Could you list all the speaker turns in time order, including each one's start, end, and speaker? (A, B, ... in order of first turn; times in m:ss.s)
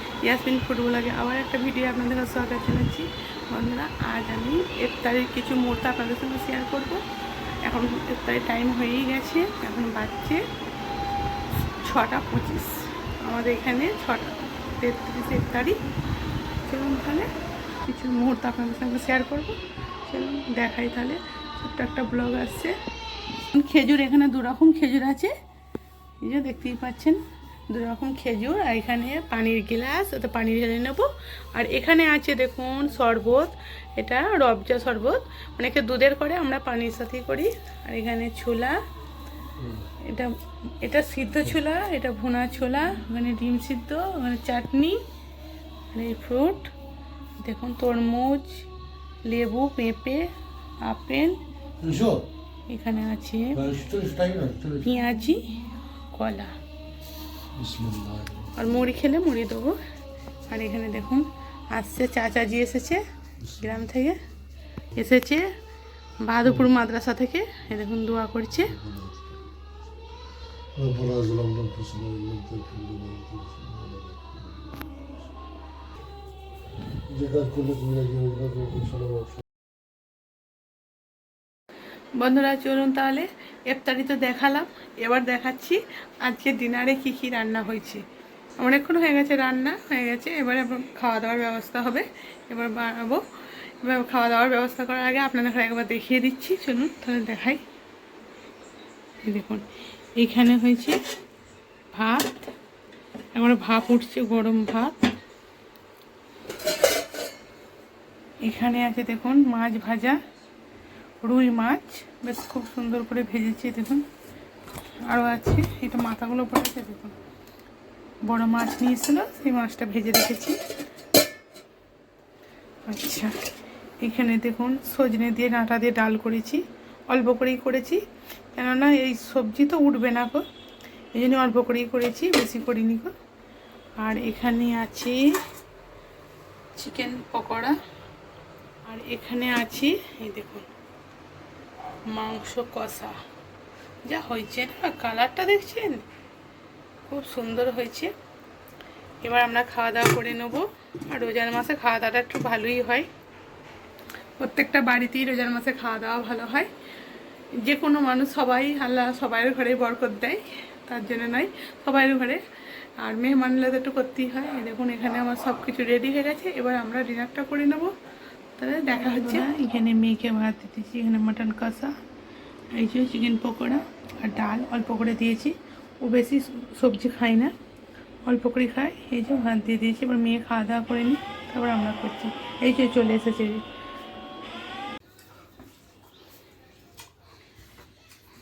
0:00.2-0:07.0 A
0:07.6-0:10.4 A
0:11.8-0:15.8 A
0:16.6-0:17.3 A
0:17.8-0:22.8 A
0:23.5-0:25.3 A
0:26.2-0:38.8 A
0:39.6-0:39.8 B
0:40.0-0:45.0 A
0:45.9-0:46.7 A
0:47.4-0:48.6 A
0:49.2-0:50.3 A
0:50.8-0:51.4 A
0:51.8-0:52.3 B
0:52.7-0:53.6 A
0:53.6-0:54.9 B
0:54.8-0:55.6 A
0:56.1-0:56.6 A
0:57.6-0:58.5 B
0:58.6-0:59.8 A
1:00.5-1:03.0 A
1:03.4-1:03.8 B
1:03.6-1:04.2 A
1:04.9-1:05.5 A
1:06.2-1:08.8 A
1:06.4-1:06.7 B
1:08.6-1:09.4 B
1:10.8-1:15.2 B
1:17.1-1:19.4 B
1:22.2-1:28.0 A
1:28.6-1:33.2 A
1:33.8-1:37.6 A
1:39.2-1:39.7 A
1:40.2-1:41.0 A
1:41.9-1:42.5 A
1:43.3-1:45.1 A
1:48.4-1:50.2 A
1:51.2-1:54.1 A
1:55.1-1:57.2 A
1:58.2-2:00.6 A
2:02.9-2:03.4 A
2:04.0-2:08.0 A
2:08.5-2:10.4 A
2:11.2-2:13.1 A
2:14.0-2:15.2 A
2:16.8-2:17.8 A
2:18.8-2:20.7 A
2:22.1-2:23.2 A
2:24.1-2:26.0 A
2:27.1-2:28.1 A
2:29.2-2:33.1 A
2:34.4-2:36.7 A
2:37.6-2:42.4 A
2:43.0-2:47.9 A
2:48.6-2:52.0 A
2:52.7-2:57.5 A
2:58.3-3:03.6 A